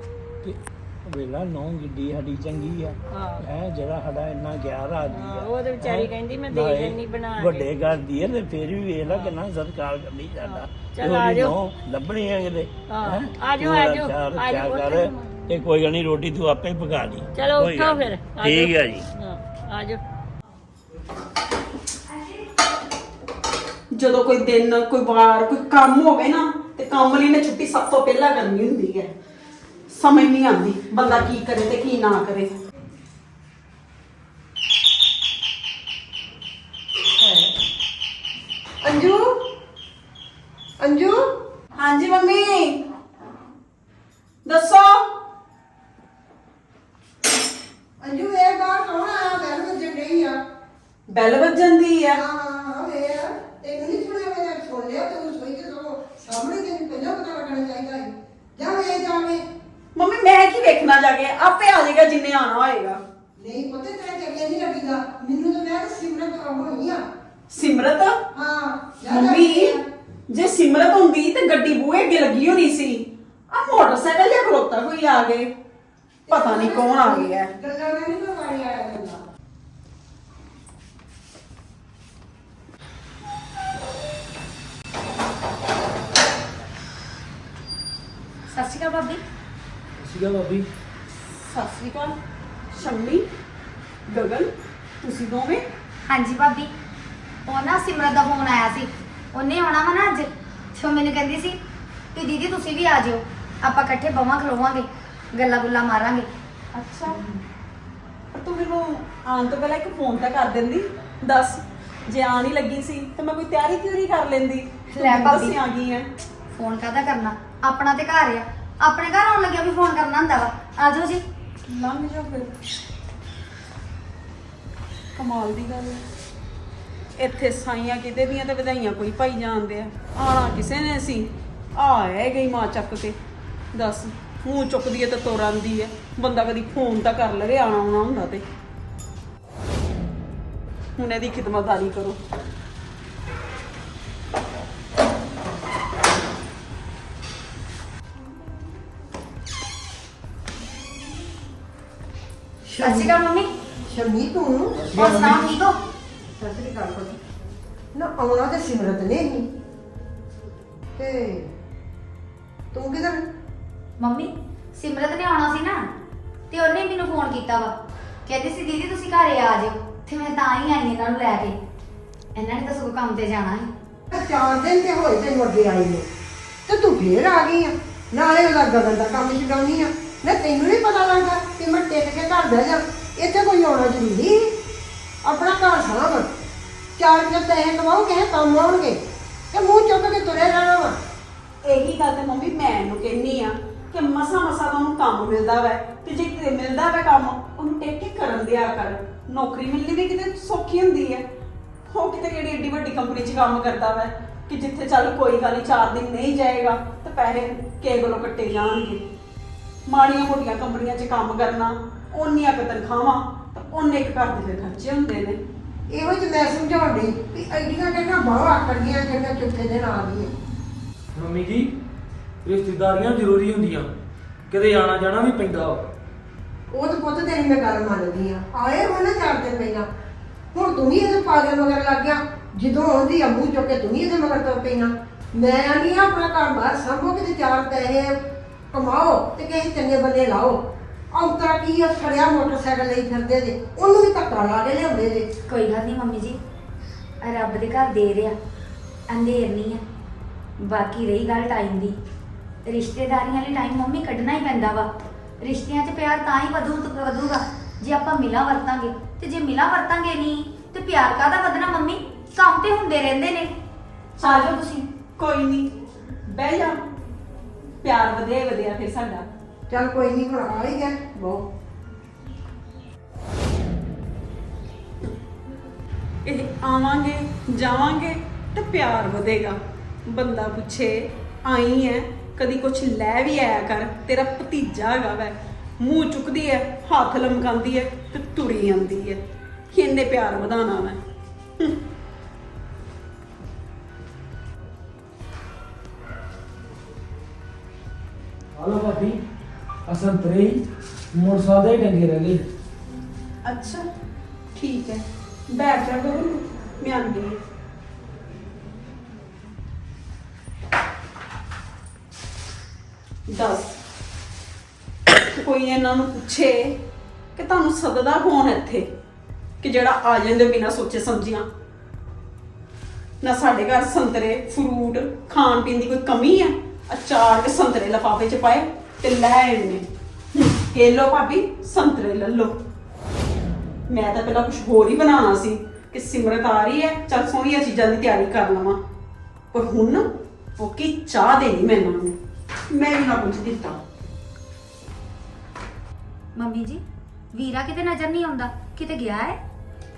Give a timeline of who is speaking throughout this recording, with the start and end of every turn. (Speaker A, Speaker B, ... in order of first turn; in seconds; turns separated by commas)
Speaker A: 0.4-19.1, Speaker B: 3.1-3.4, Speaker B: 5.1-8.1, Speaker B: 9.0-9.4, Speaker B: 10.4-11.6, Speaker B: 12.9-15.6, Speaker B: 17.3-20.0, Speaker C: 23.9-29.1, Speaker C: 29.9-32.5, Speaker D: 37.2-37.5, Speaker D: 38.8-39.4, Speaker D: 40.8-41.2, Speaker C: 41.8-42.8, Speaker C: 44.4-45.0, Speaker D: 48.0-50.4, Speaker C: 51.1-52.2, Speaker D: 52.1-59.4, Speaker C: 60.0-63.0, Speaker D: 63.4-67.0, Speaker C: 67.5-68.2, Speaker D: 68.3-69.8, Speaker C: 69.1-75.5, Speaker C: 76.3-77.5, Speaker D: 76.3-79.2, Speaker E: 88.5-89.2, Speaker F: 90.0-90.6, Speaker C: 91.3-92.2, Speaker C: 92.7-93.2, Speaker C: 94.1-94.5, Speaker C: 95.0-95.6, Speaker E: 96.1-96.7, Speaker E: 97.5-101.6, Speaker E: 102.1-106.3, Speaker C: 106.7-107.2, Speaker C: 108.3-116.1, Speaker E: 114.9-115.6, Speaker E: 116.5-121.2, Speaker C: 121.7-122.6, Speaker C: 125.2-126.0, Speaker C: 127.2-133.2, Speaker C: 133.7-138.4, Speaker C: 141.0-142.2, Speaker D: 152.6-153.2, Speaker E: 152.8-153.5, Speaker D: 153.9-155.0, Speaker F: 154.8-155.4, Speaker E: 154.9-155.8, Speaker D: 156.4-157.2, Speaker D: 157.9-159.5, Speaker D: 160.9-161.5, Speaker D: 162.7-163.2, Speaker E: 164.0-165.8, Speaker E: 166.5-167.7, Speaker E: 168.2-171.5, Speaker E: 172.3-173.7, Speaker D: 174.1-176.1, Speaker D: 176.7-184.5, Speaker D: 185.2-186.3, Speaker D: 186.9-189.0, Speaker D: 189.5-191.0, Speaker C: 191.6-201.2, Speaker C: 201.9-209.0, Speaker C: 209.9-215.4, Speaker D: 215.9-220.3, Speaker F: 221.1-221.7, Speaker F: 222.4-223.9, Speaker F: 224.5-225.8, Speaker D: 226.7-229.9, Speaker D: 230.5-238.2, Speaker D: 238.7-245.3, Speaker E: 245.5-246.4, Speaker E: 247.2-248.3, Speaker E: 249.1-249.8, Speaker E: 250.6-251.9, Speaker E: 252.6-254.9, Speaker E: 255.4-263.5, Speaker C: 264.2-264.6, Speaker E: 264.2-264.8, Speaker C: 265.2-265.7, Speaker C: 266.3-266.8, Speaker C: 267.8-269.2, Speaker D: 269.7-271.5, Speaker C: 276.2-289.2, Speaker C: 289.7-291.0, Speaker F: 298.6-299.2, Speaker F: 299.9-300.6, Speaker F: 301.1-302.4, Speaker C: 303.4-303.8, Speaker C: 304.5-307.4, Speaker C: 313.3-313.8, Speaker C: 315.4-316.8, Speaker C: 317.4-318.9, Speaker C: 319.6-321.4, Speaker C: 323.2-332.5, Speaker C: 333.9-338.8, Speaker C: 339.5-340.1, Speaker C: 340.6-342.1, Speaker C: 342.7-343.8, Speaker E: 346.4-346.8, Speaker E: 347.3-349.4